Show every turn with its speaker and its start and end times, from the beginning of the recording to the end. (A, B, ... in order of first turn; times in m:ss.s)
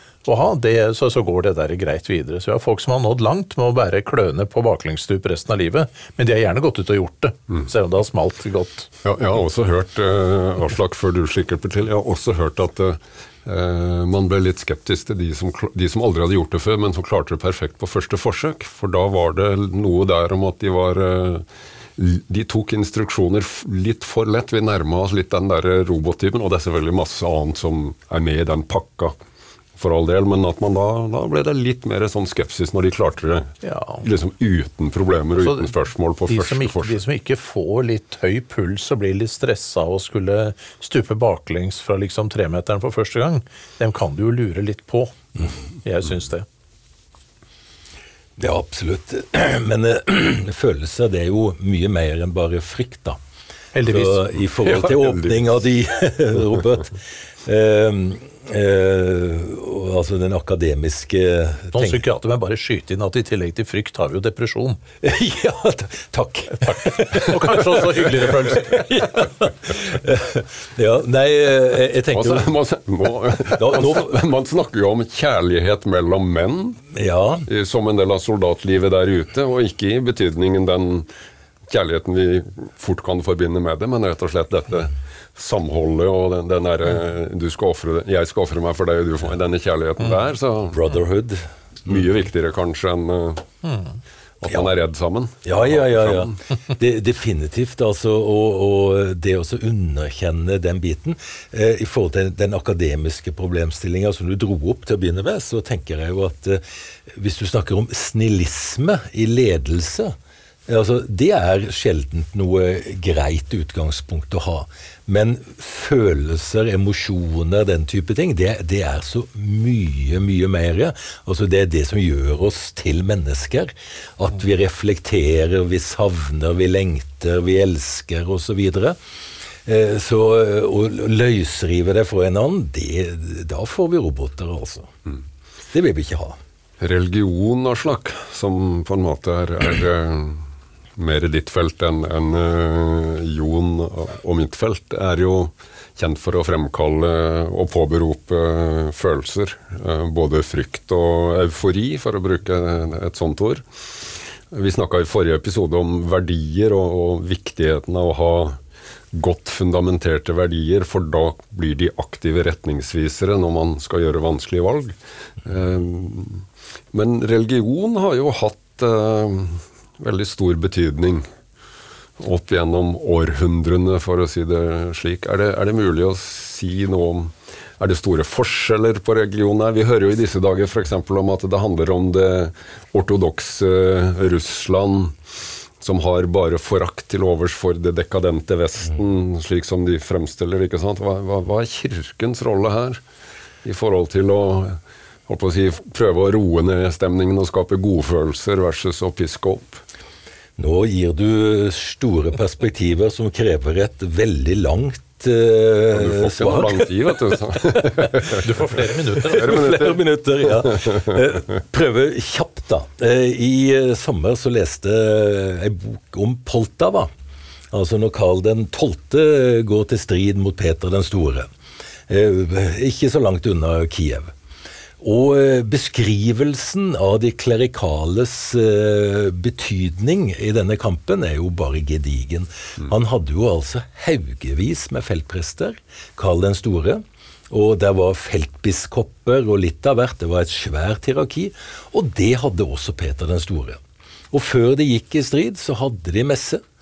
0:00.2-0:08.9 A
0:09.0-0:21.4 B
0:22.0-0:29.1 B
0:29.8-0:37.0 B
0:33.6-0:34.0 A
0:35.4-0:35.7 A
0:36.3-0:46.4 A
0:48.4-0:53.2 C
0:53.7-0:54.2 A
0:53.8-1:02.0 C
1:01.7-1:04.8 A
1:05.0-1:12.5 C
1:06.6-1:08.9 A
1:12.1-1:16.8 B
1:13.4-1:14.2 C
1:16.9-1:17.4 C
1:17.4-1:21.1 B
1:21.7-1:30.8 B
1:30.7-1:31.4 C
1:31.8-1:33.4 B
1:34.4-1:36.3 B
1:35.4-1:50.2 C
1:50.7-2:09.0 C
2:09.6-2:14.9 C
2:15.7-2:16.4 C
2:16.8-2:33.6 B
2:34.5-2:38.6 B
2:39.1-2:51.3 B
2:52.2-3:05.2 B
3:05.8-3:13.0 B
3:13.6-3:19.8 B
3:20.6-3:26.9 C
3:25.9-3:28.4 B
3:28.4-3:29.8 A
3:29.2-3:37.1 C
3:29.3-3:30.0 B
3:37.7-3:41.5 C
3:42.1-3:44.3 C
3:45.0-4:03.8 C
4:04.3-4:06.6 C